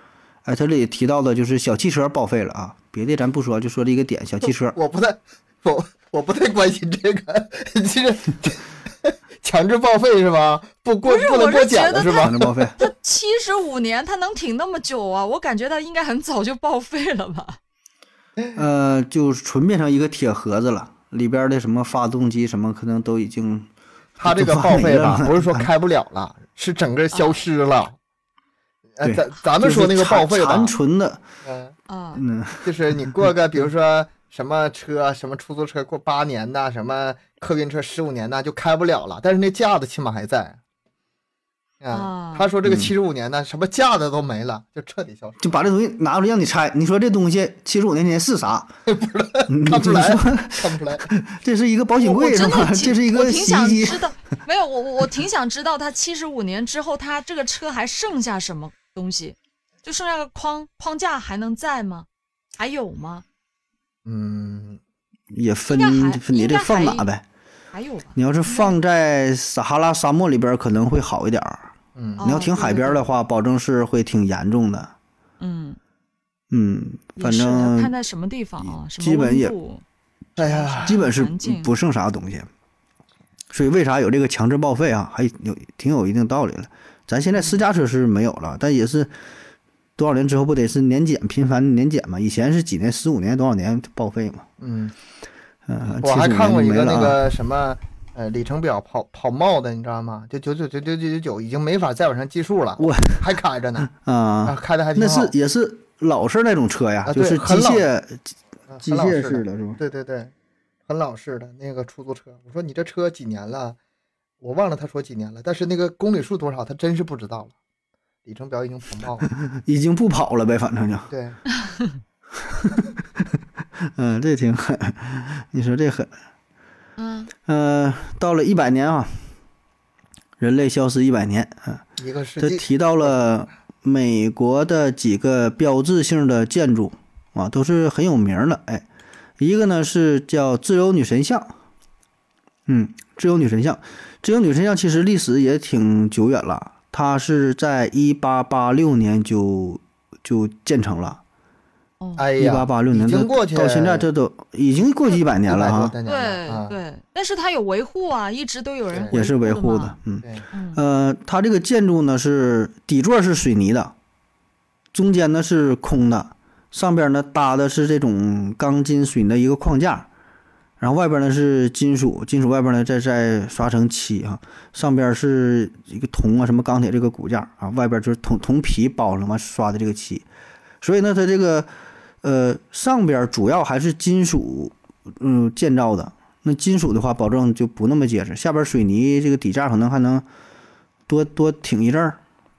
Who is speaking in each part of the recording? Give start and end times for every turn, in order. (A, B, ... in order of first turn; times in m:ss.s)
0:00.4-0:04.8 A
0:04.7-0:12.7 B
0:11.0-0:17.6 C
0:12.2-0:12.7 A
0:18.5-0:23.7 A
0:24.2-0:28.0 B
0:24.2-0:25.7 A
0:27.1-0:27.4 C
0:29.0-0:30.7 B
0:29.0-0:31.2 A
0:31.4-0:31.8 B
0:31.9-0:32.2 C
0:32.2-0:33.0 A
0:32.6-0:40.6 B
0:41.8-0:45.5 B
0:41.9-0:42.5 C
0:42.6-0:42.9 A
0:45.4-0:48.7 A
0:48.9-0:51.1 B
0:49.5-0:54.0 A
0:52.0-1:02.1 C
1:02.6-1:03.2 C
1:04.0-1:04.8 B
1:05.3-1:07.2 A
1:05.7-1:07.1 C
1:07.7-1:08.7 C
1:08.2-1:14.9 A
1:12.0-1:12.3 B
1:12.2-1:13.0 C
1:15.4-1:15.8 C
1:16.5-1:17.9 A
1:17.2-1:19.8 C
1:18.6-1:19.5 A
1:20.4-1:21.7 C
1:20.4-1:21.0 B
1:20.8-1:22.5 A
1:23.5-1:29.1 A
1:30.0-1:34.5 A
1:34.6-1:34.9 B
1:35.7-1:37.2 A
1:36.0-1:43.9 B
1:42.8-1:43.2 A
1:43.8-1:49.8 A
1:44.4-1:45.3 B
1:47.0-1:47.8 B
1:48.7-1:50.3 B
1:50.9-1:53.8 B
1:54.4-1:57.5 B
1:58.2-1:59.3 B
1:59.4-2:01.1 A
2:01.1-2:01.4 B
2:01.6-2:01.9 C
2:02.4-2:03.3 A
2:03.8-2:06.1 A
2:07.0-2:07.3 C
2:07.4-2:09.2 A
2:10.4-2:11.8 A
2:12.0-2:13.1 B
2:12.4-2:18.8 A
2:19.4-2:21.5 A
2:22.7-2:31.2 A
2:32.0-2:32.2 C
2:32.2-2:34.0 B
2:32.4-2:35.9 A
2:35.4-2:36.8 B
2:36.0-2:40.0 C
2:39.1-2:43.9 A
2:40.5-2:40.8 C
2:44.9-2:50.1 A
2:50.8-3:00.2 A
3:00.8-3:01.7 A
3:02.2-3:10.2 A
3:11.1-3:12.2 A